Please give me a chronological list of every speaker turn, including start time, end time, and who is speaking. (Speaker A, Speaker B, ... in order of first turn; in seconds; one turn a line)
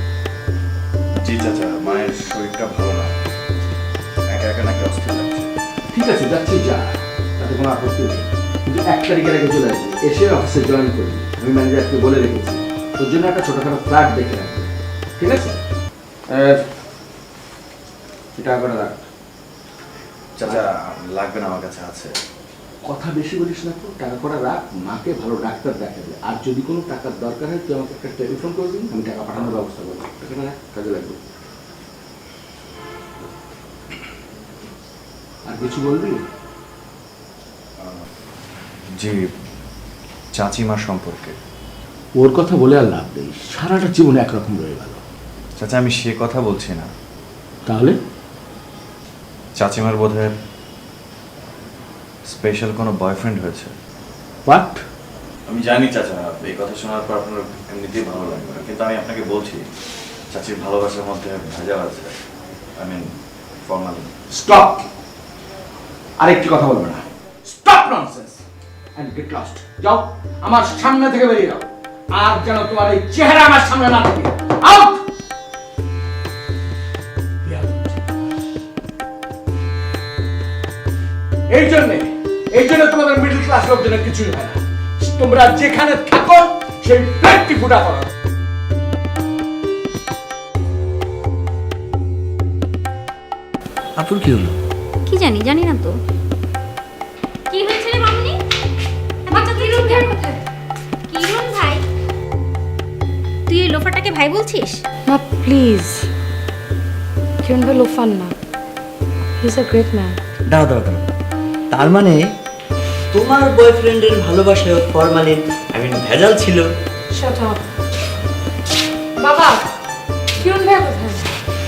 Speaker A: 1.2-3.2
Speaker A: 4.3-5.5
Speaker B: 5.9-15.6
Speaker B: 16.3-16.6
Speaker B: 18.4-19.1
Speaker A: 20.4-22.1
Speaker B: 22.8-31.2
Speaker B: 35.4-36.2
Speaker A: 39.0-39.3
Speaker A: 40.4-41.4
Speaker B: 42.2-45.0
Speaker A: 45.6-46.9
Speaker B: 47.6-48.0
Speaker A: 49.6-50.3
Speaker A: 52.3-53.7
Speaker B: 54.5-54.8
Speaker A: 55.5-59.6
Speaker A: 60.3-62.1
Speaker A: 62.8-63.1
Speaker A: 63.6-64.1
Speaker B: 64.3-64.8
Speaker B: 66.2-68.4
Speaker B: 69.0-75.0
Speaker B: 77.4-78.1
Speaker B: 81.5-88.1
Speaker B: 94.0-94.5
Speaker C: 95.1-96.0
Speaker C: 97.5-98.4
Speaker C: 99.3-100.3
Speaker D: 99.3-100.2
Speaker C: 101.1-101.8
Speaker C: 103.5-104.8
Speaker D: 105.0-106.1
Speaker D: 107.4-108.3
Speaker D: 109.4-110.2
Speaker E: 110.5-111.0
Speaker E: 111.7-112.3
Speaker E: 113.1-116.7
Speaker D: 117.1-117.6
Speaker D: 119.2-119.6
Speaker D: 120.3-121.3